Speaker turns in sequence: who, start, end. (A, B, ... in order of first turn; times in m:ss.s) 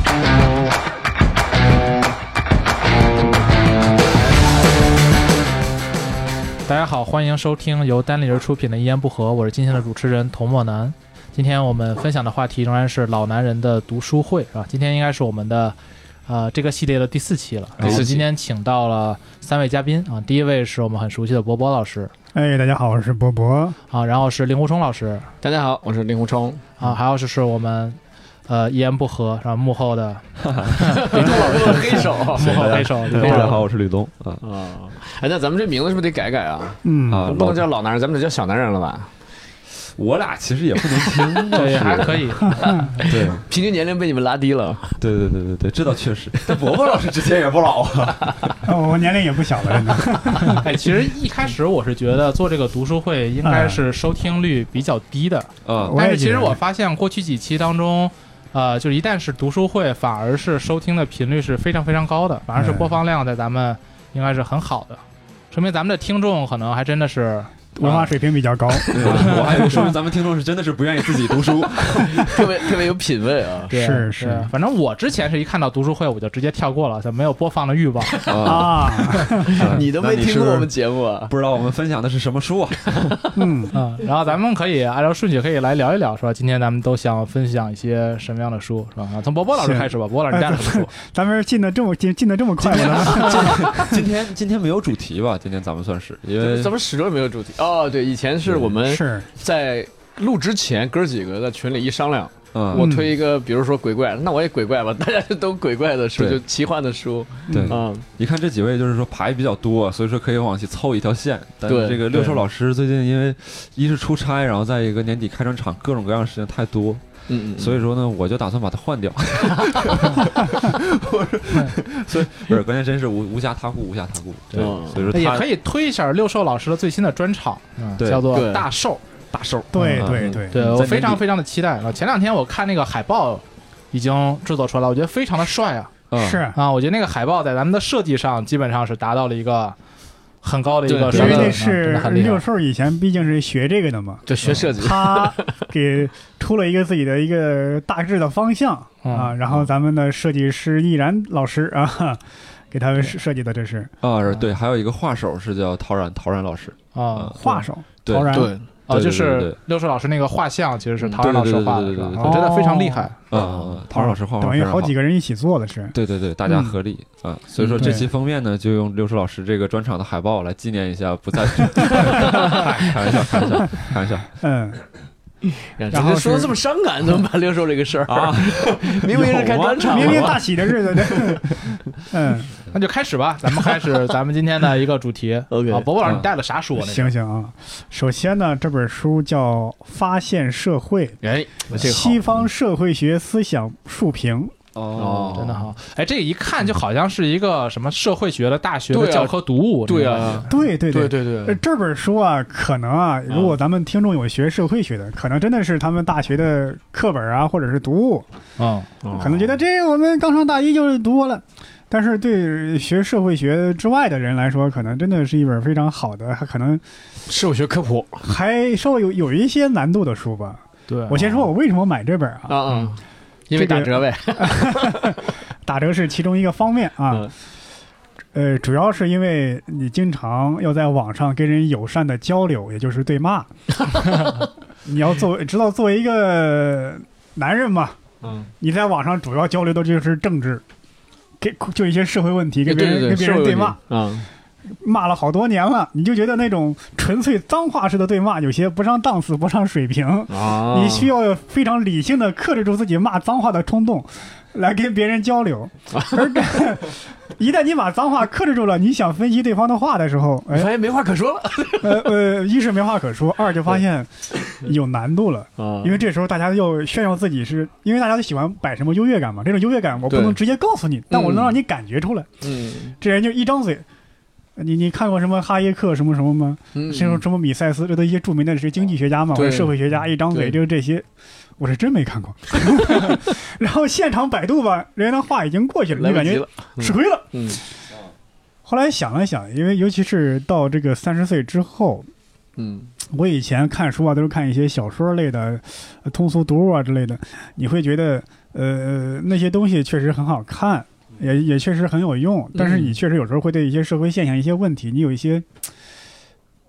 0:06.6-0:22.1 A
0:17.8-0:18.1 B
0:17.8-0:18.2 C
0:22.3-0:23.8 D
0:23.9-0:25.3 A
0:25.4-0:26.7 C
0:26.8-0:33.6 A
0:30.4-0:34.4 B
0:30.8-0:33.6 C
0:34.4-0:39.1 C
0:36.8-0:37.3 D
0:37.1-0:37.6 B
0:40.0-0:43.4 B
0:40.8-0:41.7 C
0:41.5-0:43.0 A
0:42.6-0:42.8 D
0:42.6-0:45.0 C
0:45.0-0:48.6 B
0:46.5-0:46.8 C
0:48.1-0:48.4 C
0:48.6-0:50.6 D
0:49.9-0:50.6 C
0:50.4-1:07.5 A
0:53.4-0:53.8 D
0:55.6-0:56.0 B
0:55.8-0:56.6 D
1:02.5-1:03.0 D
1:07.7-1:09.9 D
1:08.7-1:09.9 C
1:08.9-1:12.8 B
1:11.1-1:13.7 C
1:13.7-1:18.2 A
1:13.7-1:14.5 D
1:18.1-1:18.6 C
1:18.2-1:20.7 B
1:18.4-1:19.7 D
1:19.4-1:21.3 C
1:21.3-1:23.2 B
1:22.9-1:23.3 C
1:23.3-1:23.7 D
1:23.7-1:30.9 A
1:29.6-1:34.0 D
1:32.6-1:36.8 B
1:36.4-1:48.0 C
1:38.4-1:38.7 B
1:38.8-1:39.3 D
1:42.5-1:42.9 B
1:42.7-1:43.1 D
1:46.2-1:46.4 B
1:47.5-1:47.8 D
1:47.5-2:05.5 B
1:51.6-1:52.4 C
1:57.3-1:57.8 C
1:59.5-1:59.8 C
2:04.5-2:05.1 C
2:05.0-2:09.0 A
2:08.0-2:08.3 B
2:08.3-2:08.7 C
2:09.3-2:11.2 B
2:09.7-2:10.6 D
2:10.1-2:10.4 C
2:10.5-2:15.9 A
2:16.1-2:16.4 B
2:16.2-2:16.6 D
2:16.5-2:19.8 A
2:20.4-2:22.4 A
2:20.8-2:21.6 C
2:21.1-2:33.9 D
2:24.2-2:25.5 C
2:29.0-2:29.4 A
2:34.0-2:37.4 B
2:34.3-2:34.5 A
2:36.9-2:37.6 A
2:37.3-2:38.5 D
2:38.0-2:39.6 B
2:38.3-2:38.6 C
2:38.9-2:43.2 A
2:41.2-2:42.4 B
2:42.2-2:46.8 D
2:43.3-2:44.9 B
2:45.9-2:54.3 B
2:47.6-2:48.0 C
2:47.8-2:48.1 D
2:51.8-2:52.6 C
2:54.4-2:54.8 D
2:55.6-3:00.4 C
2:55.9-2:56.5 D
2:58.1-3:01.7 B
2:59.8-3:02.5 D
3:02.7-3:07.1 A
3:05.5-3:05.9 C
3:06.0-3:06.3 B
3:06.8-3:11.2 D
3:11.2-3:12.2 C
3:11.7-3:14.5 D
3:14.7-3:15.6 B
3:14.9-3:15.6 C
3:15.3-3:20.5 A
3:18.9-3:21.6 C
3:20.5-3:28.2 D
3:23.3-3:23.5 C
3:28.6-3:28.9 A
3:29.0-3:29.6 C
3:29.1-3:36.8 D
3:37.3-3:38.2 C
3:38.2-3:42.6 D
3:40.9-3:41.2 A
3:42.5-3:45.2 C
3:43.5-3:47.3 D
3:48.3-3:53.5 D
3:53.8-3:54.4 C
3:54.8-3:58.0 D
3:58.2-3:58.5 C
3:58.6-4:00.6 D
4:01.4-4:03.8 D
4:02.6-4:04.3 C
4:04.7-4:20.7 D
4:10.3-4:11.1 C
4:15.9-4:16.3 C
4:20.5-4:22.1 C
4:21.8-4:32.5 D
4:25.6-4:26.0 C
4:30.1-4:30.4 C
4:31.1-4:31.6 C
4:32.4-4:32.9 C
4:33.0-4:33.8 D
4:34.6-4:41.0 D
4:36.7-4:37.2 C
4:39.3-4:39.7 C
4:40.3-4:40.6 C
4:41.6-4:47.6 D
4:45.9-4:47.6 C
4:48.6-4:52.1 D
4:52.6-4:52.9 C
4:53.1-5:05.5 D
5:02.5-5:03.0 C